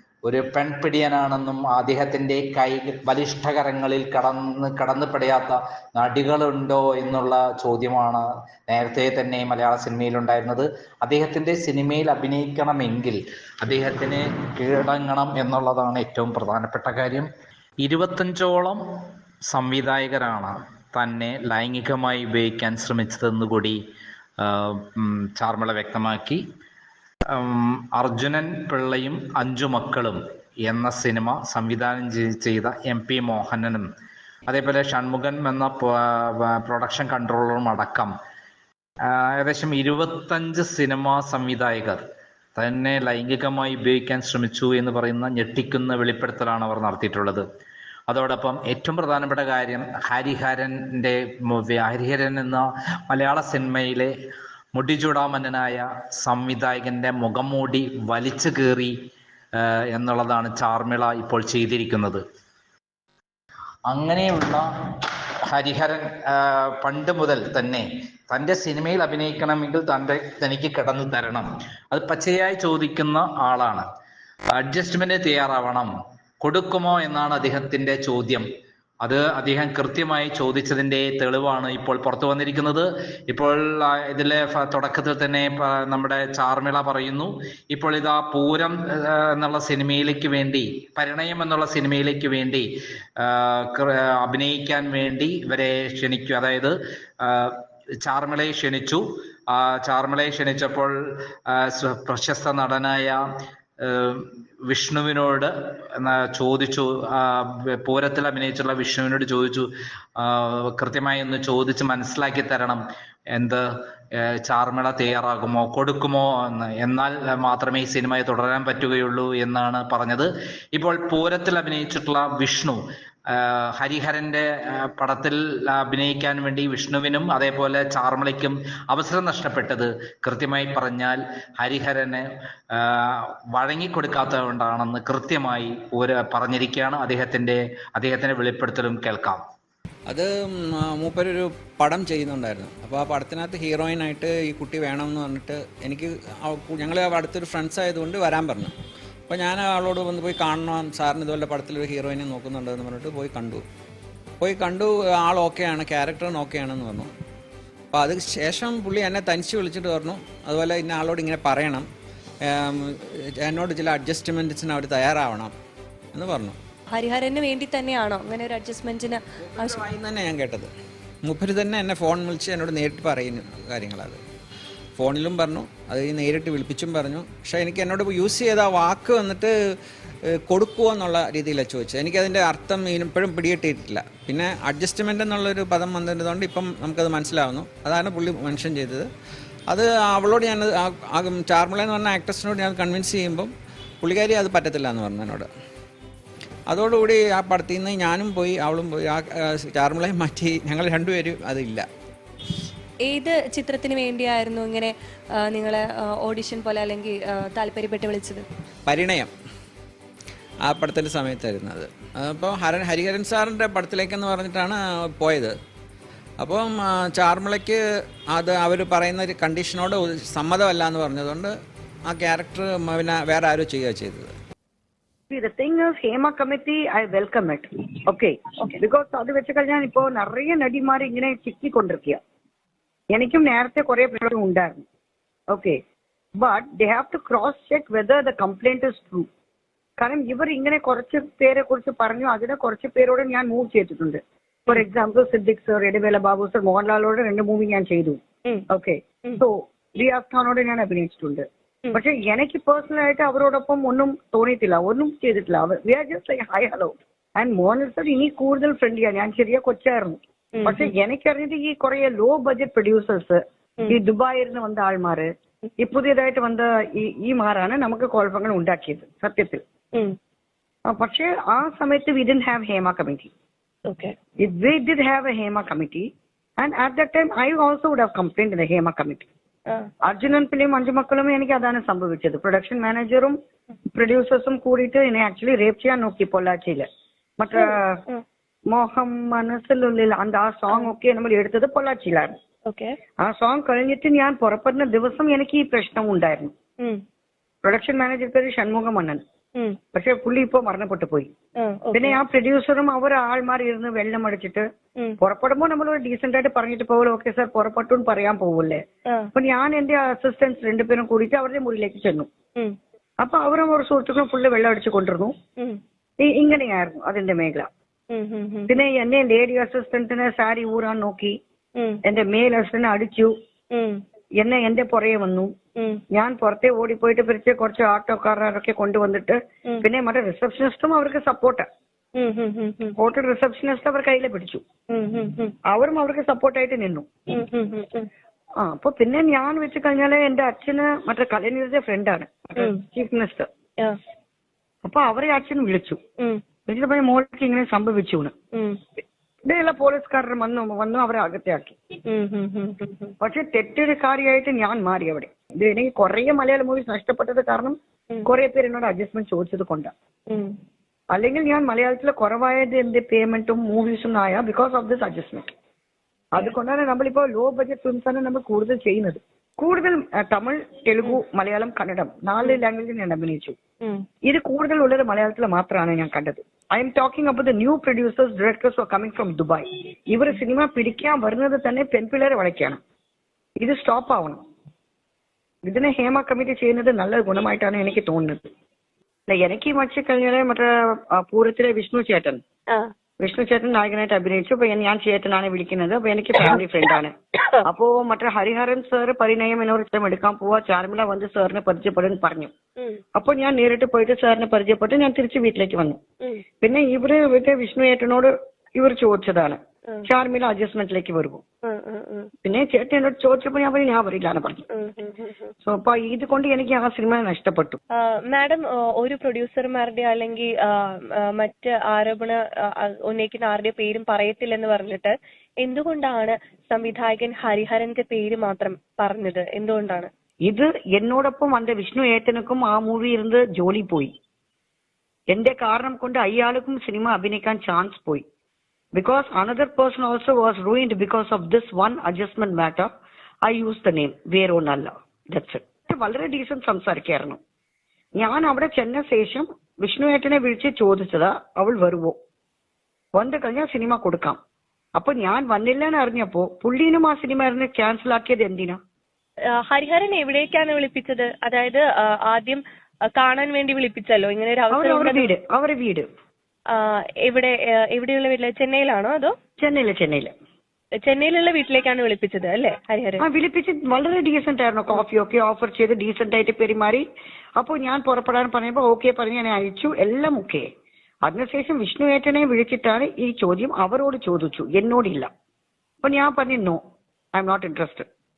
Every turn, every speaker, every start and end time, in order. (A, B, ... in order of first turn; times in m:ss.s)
0:00.3-0:17.3 A
0:17.8-0:18.8 A
0:19.5-0:23.8 A
0:24.4-0:26.4 A
0:27.3-0:33.9 A
0:34.5-0:38.1 A
0:39.1-0:42.0 A
0:42.6-0:47.4 A
0:48.1-0:54.1 A
0:54.8-0:58.9 A
0:59.6-1:02.2 A
1:03.9-1:04.7 A
1:05.5-1:13.9 A
1:14.6-1:15.9 A
1:16.4-1:18.5 A
1:19.0-1:32.7 A
1:33.2-1:41.0 A
1:41.5-1:43.2 A
1:43.8-1:52.8 A
1:53.4-1:53.6 A
1:54.2-2:02.8 A
2:03.3-2:19.4 A
2:20.1-2:28.7 B
2:29.3-2:33.6 B
2:34.4-2:37.1 B
2:37.9-2:41.9 B
2:42.5-2:45.5 B
2:46.1-2:46.6 B
2:46.9-2:49.8 C
2:49.5-2:50.7 B
2:51.2-2:54.2 B
2:55.0-2:59.5 B
3:00.4-3:09.1 B
3:09.7-3:15.5 B
3:16.7-3:21.9 B
3:23.1-3:28.4 C
3:28.9-3:29.3 B
3:30.6-3:35.6 B
3:36.4-3:41.5 B
3:42.1-3:44.3 B
3:45.3-3:52.2 D
3:53.1-3:54.8 D
3:55.5-3:55.8 D
3:56.4-3:59.3 D
4:00.0-4:25.3 D
4:20.6-4:20.9 E
4:25.8-4:29.6 D
4:30.9-4:33.3 D
4:33.9-4:34.1 E
4:34.4-4:36.1 D
4:36.6-4:39.3 D
4:40.1-4:43.4 D
4:43.9-4:46.9 D
4:47.4-4:48.0 D
4:47.6-4:48.2 E
4:48.7-4:52.4 D
4:53.2-4:56.5 D
4:57.6-4:59.2 D
4:59.9-5:01.3 D
5:01.6-5:02.2 E
5:01.9-5:04.6 D
5:05.2-5:08.8 D
5:09.4-5:12.3 D
5:13.2-5:15.4 D
5:16.2-5:17.7 D
5:18.1-5:18.7 E
5:18.7-5:21.4 D
5:22.0-5:23.3 D
5:23.7-5:24.0 E
5:24.4-5:25.5 D
5:25.8-5:26.0 E
5:26.1-5:31.7 D
5:32.2-5:33.0 E
5:33.0-5:34.6 D
5:34.9-5:35.6 E
5:35.7-5:37.1 D
5:37.3-5:38.1 E
5:38.6-5:43.5 D
5:44.8-5:46.0 D
5:46.7-5:48.3 D
5:48.5-5:48.8 E
5:49.4-5:51.8 D
5:52.1-5:53.1 E
5:53.2-5:59.9 D
6:00.3-6:00.5 E
6:01.1-6:05.5 D
6:06.4-6:13.6 D
6:14.3-6:22.8 D
6:23.6-6:24.4 D
6:25.7-6:28.5 D
6:29.3-6:32.4 D
6:33.2-6:37.1 D
6:37.6-6:42.5 D
6:43.2-6:46.0 D
6:46.6-6:51.4 D
6:51.6-6:52.3 E
6:52.4-6:54.7 D
6:54.7-6:55.5 E
6:55.6-6:57.8 D
6:58.3-7:00.5 E
7:01.3-7:10.1 E
7:10.5-7:14.1 D
7:15.3-7:18.2 D
7:19.0-7:22.9 D
7:23.5-7:27.4 D
7:28.2-7:32.2 D
7:33.2-7:34.4 D
7:35.0-7:38.8 D
7:39.6-7:42.6 E
7:43.1-7:45.3 E
7:44.7-7:46.1 D
7:46.7-7:49.3 E
7:49.6-7:50.3 D
7:51.0-7:53.2 E
7:53.2-7:57.0 D
7:57.6-8:00.7 D
8:01.3-8:05.3 D
8:06.0-8:06.8 D
8:07.3-8:08.1 D